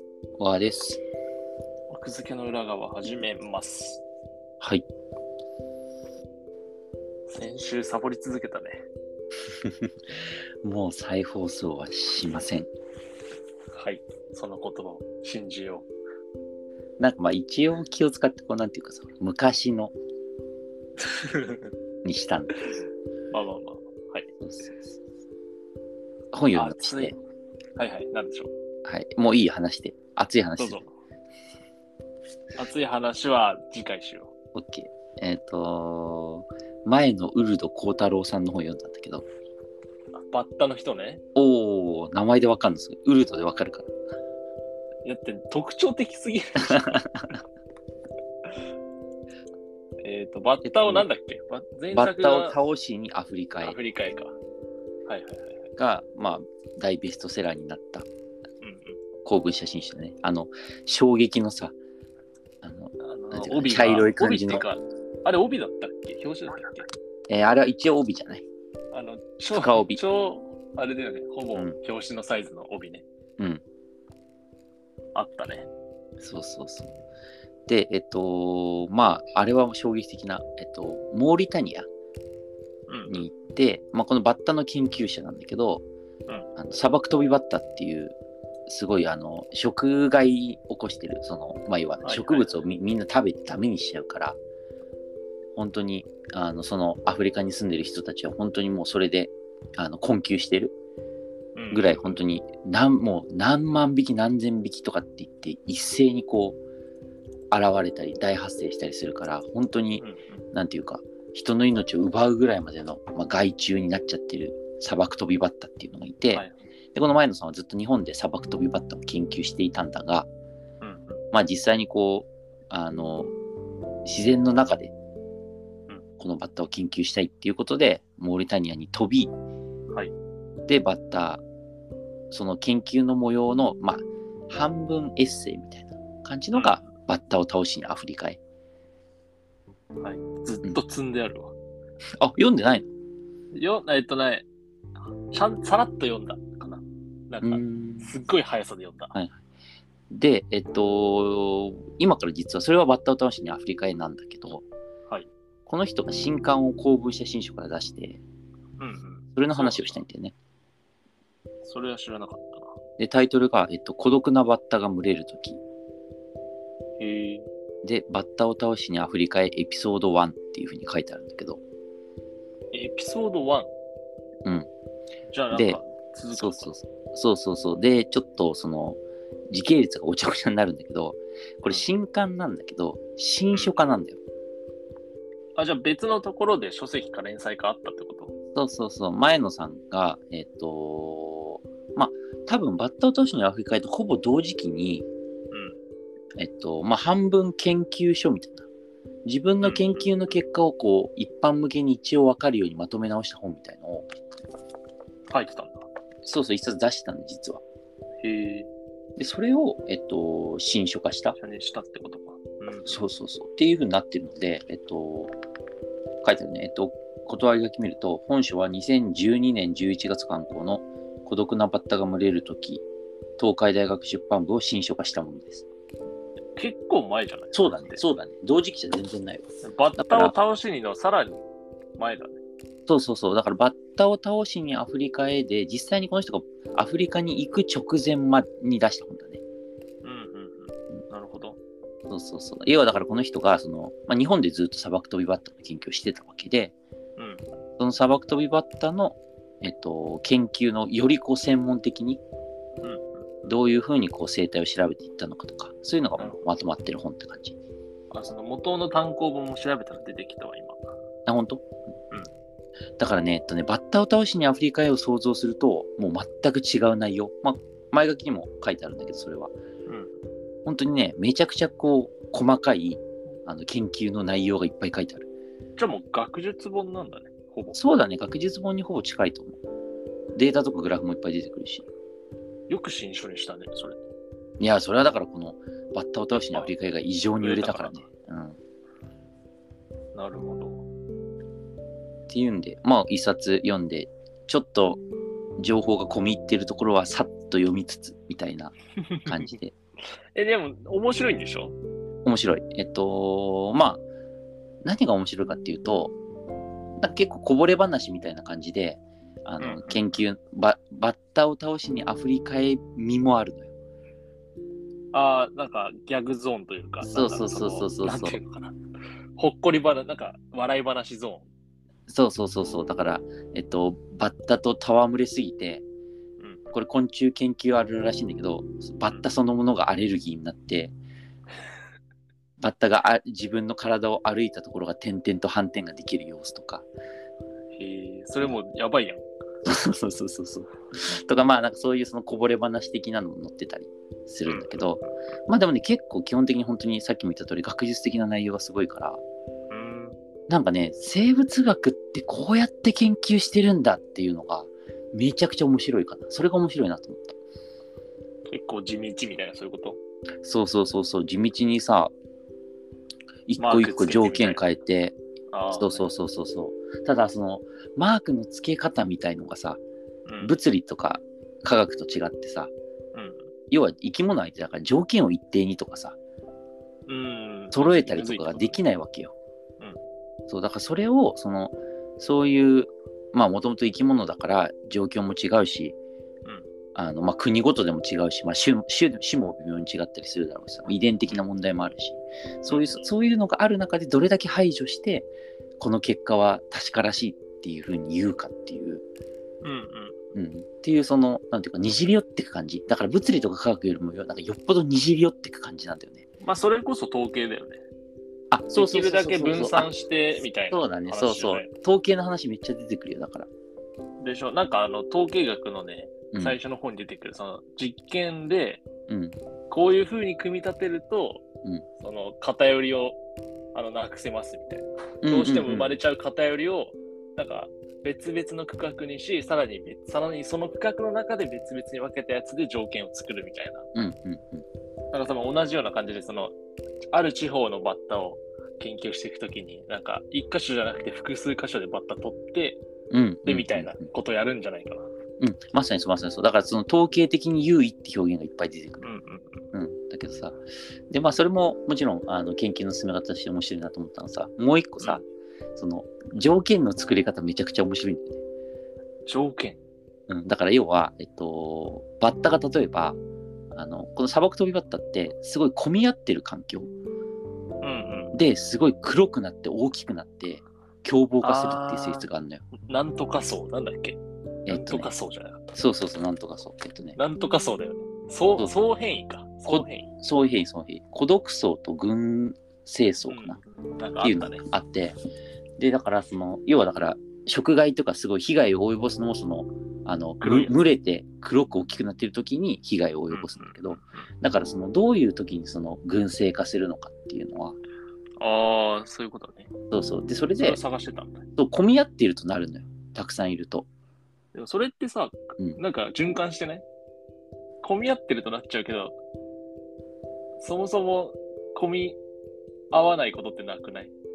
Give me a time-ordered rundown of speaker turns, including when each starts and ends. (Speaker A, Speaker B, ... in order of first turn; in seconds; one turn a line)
Speaker A: 0.4-1.0
Speaker B: 1.9-4.0
Speaker B: 7.3-8.8
Speaker A: 10.6-12.7
Speaker B: 13.7-15.9
Speaker A: 17.0-19.9
Speaker B: 21.0-21.7
Speaker A: 22.0-22.6
Speaker B: 23.3-24.3
Speaker A: 24.4-24.9
Speaker A: 26.3-27.1
Speaker B: 26.5-27.1
Speaker B: 27.8-28.5
Speaker A: 28.8-30.8
Speaker B: 30.6-30.9
Speaker B: 32.5-34.3
Speaker A: 34.5-39.2
Speaker B: 40.1-41.2
Speaker A: 41.3-43.9
Speaker B: 45.0-47.0
Speaker A: 46.7-47.4
Speaker B: 50.0-52.6
Speaker A: 50.6-51.1
Speaker A: 51.9-53.8
Speaker B: 53.6-54.4
Speaker B: 55.1-55.7
Speaker A: 55.8-58.0
Speaker B: 58.6-59.0
Speaker A: 59.2-61.7
Speaker A: 62.6-64.6
Speaker B: 63.0-66.8
Speaker A: 67.3-68.4
Speaker B: 68.9-73.0
Speaker A: 69.5-70.0
Speaker B: 75.1-75.7
Speaker A: 76.2-76.9
Speaker A: 77.7-81.9
Speaker B: 82.9-83.2
Speaker A: 83.1-85.8
Speaker A: 86.5-88.2
Speaker A: 88.7-94.4
Speaker B: 92.0-92.5
Speaker A: 95.5-100.7
Speaker B: 101.5-102.2
Speaker A: 101.7-106.6
Speaker A: 107.5-120.3
Speaker B: 110.0-110.4
Speaker B: 120.8-121.2
Speaker A: 121.3-123.3
Speaker A: 124.0-124.9
Speaker A: 126.2-129.3
Speaker A: 130.7-131.4
Speaker A: 132.3-138.4
Speaker B: 136.5-136.8
Speaker B: 140.0-141.5
Speaker A: 142.2-142.9
Speaker B: 143.5-144.4
Speaker B: 145.3-149.1
Speaker A: 147.4-148.1
Speaker A: 149.1-149.4
Speaker A: 150.1-154.7
Speaker A: 155.7-158.2
Speaker B: 158.8-160.0
Speaker A: 159.3-160.3
Speaker B: 161.6-162.8
Speaker A: 163.0-165.6
Speaker B: 167.0-167.5
Speaker A: 167.8-171.6
Speaker B: 172.7-173.7
Speaker B: 175.3-176.7
Speaker A: 175.5-175.8
Speaker A: 176.3-179.0
Speaker A: 179.5-184.2
Speaker B: 185.6-188.3
Speaker A: 188.5-195.1
Speaker B: 195.5-195.8
Speaker A: 196.4-198.7
Speaker A: 199.2-204.1
Speaker B: 199.6-200.1
Speaker B: 205.3-205.8
Speaker A: 206.2-207.6
Speaker B: 208.2-208.7
Speaker A: 209.2-211.3
Speaker B: 211.3-213.0
Speaker A: 212.9-215.3
Speaker A: 216.2-222.8
Speaker A: 223.4-225.7
Speaker B: 226.6-228.0
Speaker A: 227.5-230.3
Speaker B: 229.6-231.4
Speaker B: 232.0-232.4
Speaker A: 232.9-239.4
Speaker B: 240.0-241.6
Speaker A: 242.1-246.7
Speaker B: 247.2-247.4
Speaker A: 247.8-252.2
Speaker B: 252.8-253.2
Speaker A: 253.4-257.6
Speaker B: 258.1-260.9
Speaker A: 261.3-261.6
Speaker A: 263.0-269.5
Speaker B: 269.9-270.1
Speaker A: 270.6-275.3
Speaker B: 275.8-277.8
Speaker A: 277.7-279.6
Speaker A: 280.3-281.8
Speaker B: 282.7-284.0
Speaker A: 284.6-288.6
Speaker B: 287.4-288.0
Speaker B: 290.1-290.8
Speaker A: 292.3-295.0
Speaker A: 295.6-299.7
Speaker B: 299.1-299.5
Speaker B: 300.3-301.8
Speaker A: 302.2-304.0
Speaker A: 304.8-306.1
Speaker A: 307.0-313.7
Speaker B: 309.6-310.2
Speaker B: 315.1-318.8
Speaker A: 317.0-318.4
Speaker B: 319.4-321.5
Speaker A: 322.1-325.8
Speaker A: 326.7-330.9
Speaker A: 332.6-336.9
Speaker B: 337.7-339.2
Speaker A: 339.6-349.2
Speaker B: 349.7-350.2
Speaker A: 350.5-357.4
Speaker B: 358.5-360.0
Speaker A: 360.4-362.1
Speaker A: 363.5-365.2
Speaker B: 363.6-364.6
Speaker B: 365.5-366.1
Speaker A: 365.7-369.8
Speaker B: 370.2-370.6
Speaker A: 370.4-372.7
Speaker B: 373.1-373.5
Speaker A: 373.7-376.2
Speaker B: 377.1-378.8
Speaker A: 377.7-379.3
Speaker A: 380.5-385.9
Speaker A: 386.9-399.0
Speaker B: 392.7-393.0
Speaker B: 399.6-400.1
Speaker A: 400.3-406.2
Speaker B: 406.4-407.8
Speaker A: 408.5-409.9
Speaker B: 408.7-411.7
Speaker A: 410.7-413.5
Speaker B: 414.2-418.8
Speaker A: 416.3-416.6
Speaker A: 419.1-419.4
Speaker B: 419.7-421.4
Speaker B: 422.0-423.2
Speaker B: 423.7-433.9
Speaker A: 425.2-426.0
Speaker A: 433.9-434.6
Speaker B: 435.1-436.5
Speaker B: 437.1-442.8
Speaker A: 443.1-444.1
Speaker B: 443.4-445.1
Speaker A: 445.4-449.1
Speaker B: 449.0-449.6
Speaker A: 449.7-450.6
Speaker A: 451.1-455.2
Speaker A: 455.8-458.4
Speaker B: 459.2-459.8
Speaker A: 460.3-463.2
Speaker A: 463.7-466.9
Speaker B: 467.8-468.4
Speaker A: 468.3-472.6
Speaker B: 471.4-472.2
Speaker B: 472.8-475.7
Speaker A: 474.7-475.1
Speaker A: 475.7-477.2
Speaker B: 477.1-480.1
Speaker A: 479.6-483.6
Speaker B: 483.3-484.7
Speaker A: 484.2-485.1
Speaker A: 485.8-497.8
Speaker B: 490.4-490.7
Speaker B: 493.3-494.3
Speaker B: 498.4-499.7
Speaker A: 499.9-500.8
Speaker B: 500.6-501.4
Speaker A: 501.6-503.9
Speaker B: 504.5-506.8
Speaker B: 507.8-509.1
Speaker B: 510.6-512.2
Speaker B: 512.9-514.1